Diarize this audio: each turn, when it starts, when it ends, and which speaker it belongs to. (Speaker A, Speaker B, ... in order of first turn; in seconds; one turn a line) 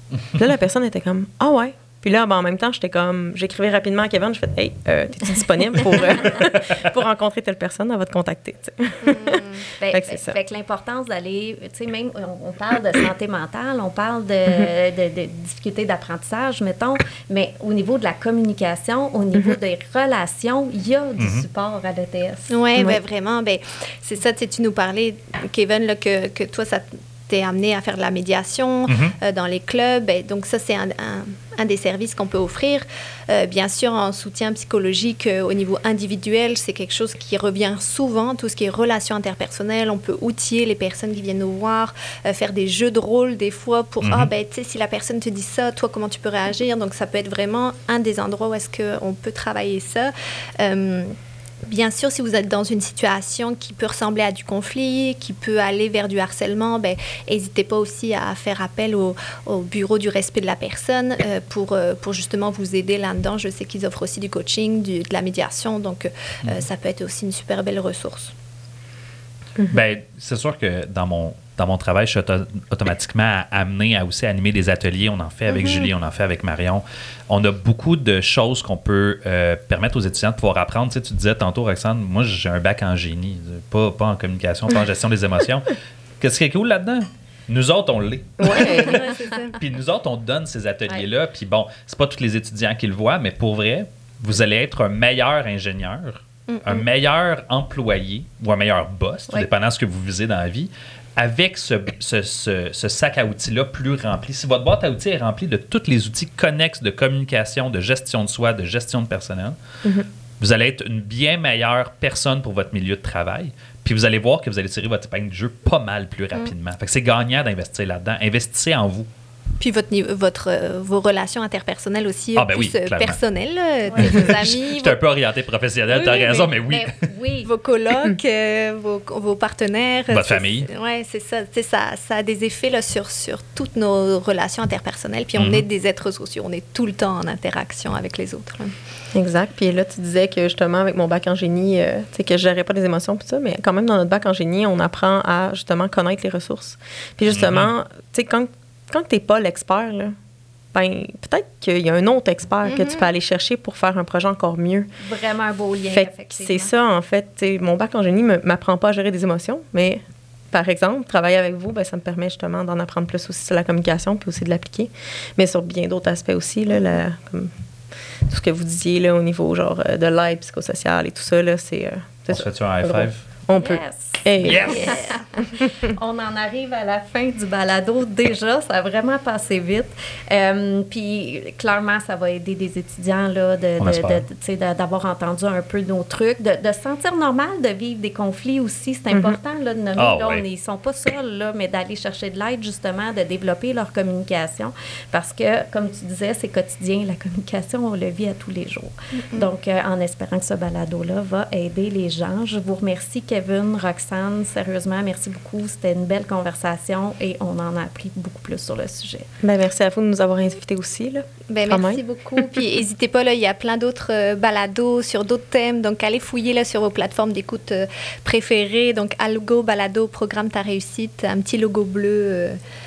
Speaker A: 0.3-10.4
Speaker B: 9.0-9.7
Speaker C: 9.8-22.6
Speaker D: 21.2-21.4
Speaker B: 22.5-51.1
Speaker D: 28.9-29.1
Speaker D: 44.0-44.3
Speaker B: 51.7-68.3
Speaker D: 69.7-89.0
Speaker B: 75.5-75.9
Speaker A: 88.4-89.0
Speaker B: 88.5-89.6
Speaker D: 89.5-109.6
Speaker B: 96.5-96.9
Speaker D: 110.4-119.1
Speaker B: 119.6-125.0
Speaker D: 122.4-123.2
Speaker C: 123.9-124.2
Speaker D: 124.0-127.1
Speaker B: 125.9-126.5
Speaker C: 126.7-127.5
Speaker B: 127.5-138.8
Speaker D: 130.1-130.7
Speaker D: 135.4-135.7
Speaker A: 139.1-150.1
Speaker D: 147.3-147.7
Speaker A: 150.7-154.9
Speaker B: 152.6-153.1
Speaker C: 155.0-156.7
Speaker A: 155.9-167.5
Speaker A: 168.3-174.9
Speaker D: 172.3-173.2
Speaker C: 173.5-209.3
Speaker D: 174.4-175.0
Speaker B: 174.9-175.2
Speaker D: 183.8-184.2
Speaker A: 189.1-189.4
Speaker D: 190.0-190.4
Speaker A: 209.4-212.0
Speaker B: 211.5-222.6